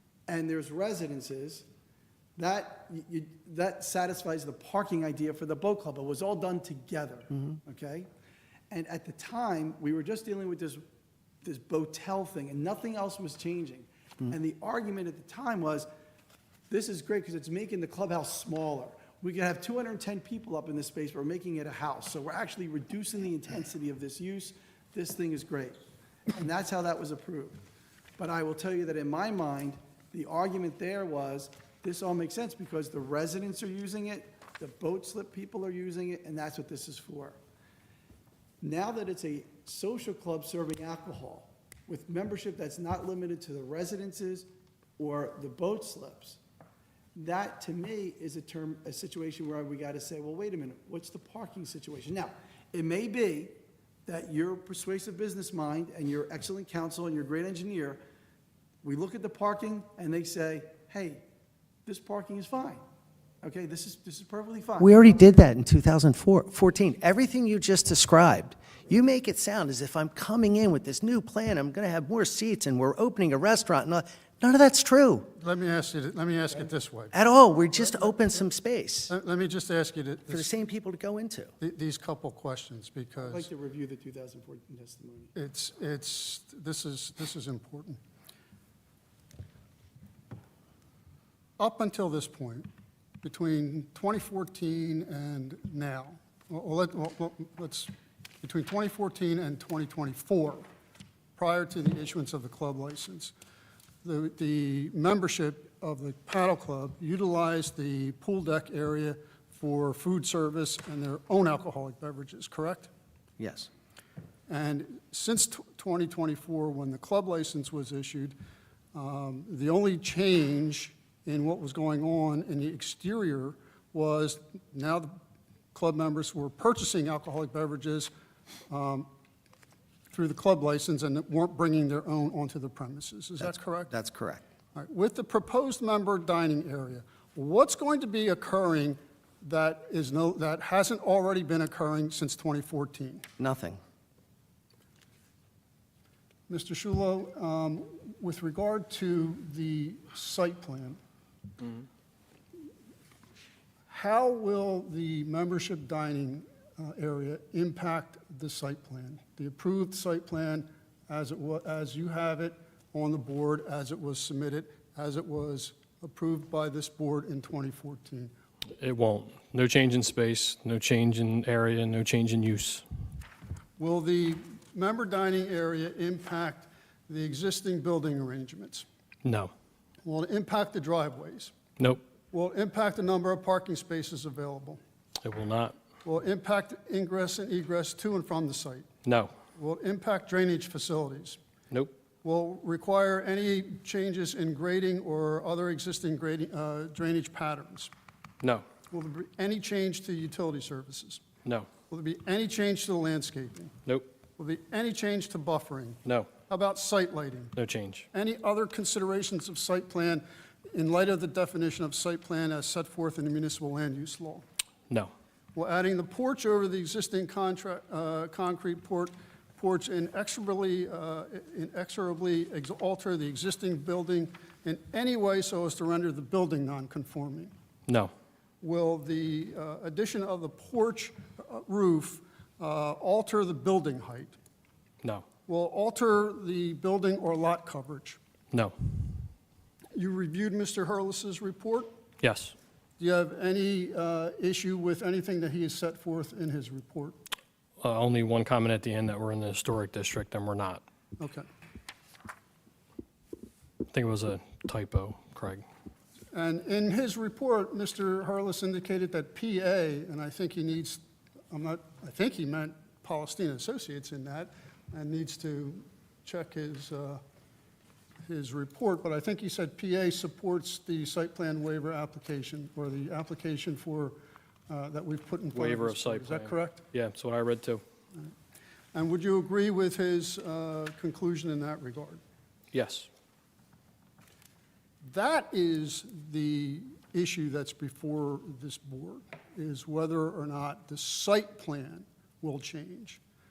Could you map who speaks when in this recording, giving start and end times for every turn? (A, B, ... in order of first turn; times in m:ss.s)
0:00.3-0:01.6 A
0:02.4-0:08.1 A
0:08.7-0:10.8 A
0:11.4-0:15.9 A
0:16.7-0:25.8 A
0:26.3-0:27.6 A
0:28.2-0:37.4 A
0:38.6-0:44.5 A
0:45.0-0:46.4 A
0:47.1-0:58.0 A
0:58.8-1:01.2 A
1:01.8-1:02.8 A
1:03.4-1:05.2 A
1:04.8-1:15.3 B
1:15.4-1:17.2 C
1:17.1-1:19.1 B
1:17.7-1:18.4 C
1:19.1-1:20.5 C
1:20.3-1:21.5 B
1:21.6-1:23.5 C
1:23.2-1:25.3 A
1:25.3-1:28.0 C
1:31.6-1:32.7 C
1:33.2-1:37.9 C
1:38.4-1:40.6 C
1:41.4-1:43.3 C
1:44.0-1:52.9 C
1:53.4-1:53.7 B
1:54.5-1:58.3 C
1:58.9-2:05.2 C
2:05.7-2:08.1 C
2:08.7-2:09.1 C
2:10.1-2:13.9 C
2:13.4-2:14.4 B
2:14.7-2:23.3 C
2:23.4-2:23.8 B
2:26.5-2:31.0 C
2:33.9-2:48.3 C
2:48.8-2:52.8 D
2:53.8-2:58.8 C
2:59.2-2:59.5 D
3:00.0-3:01.5 C
3:02.3-3:04.8 C
3:05.2-3:05.8 D
3:06.0-3:08.9 C
3:09.0-3:09.3 D
3:09.5-3:11.4 C
3:12.2-3:17.9 C
3:18.9-3:21.2 C
3:21.9-3:23.7 C
3:24.4-3:27.5 C
3:27.6-3:28.0 D
3:28.1-3:34.4 C
3:35.5-3:47.5 C
3:47.9-3:48.1 D
3:48.6-3:54.3 C
3:55.4-3:58.2 C
3:59.9-4:01.9 C
4:02.2-4:02.5 D
4:03.0-4:07.2 C
4:07.8-4:10.8 D
4:11.2-4:11.4 C
4:13.9-4:15.6 D
4:16.3-4:27.2 C
4:28.2-4:34.2 C
4:34.7-4:36.9 C
4:35.5-4:37.8 D
4:38.9-4:42.2 C
4:42.7-4:43.1 D
4:45.0-4:53.2 C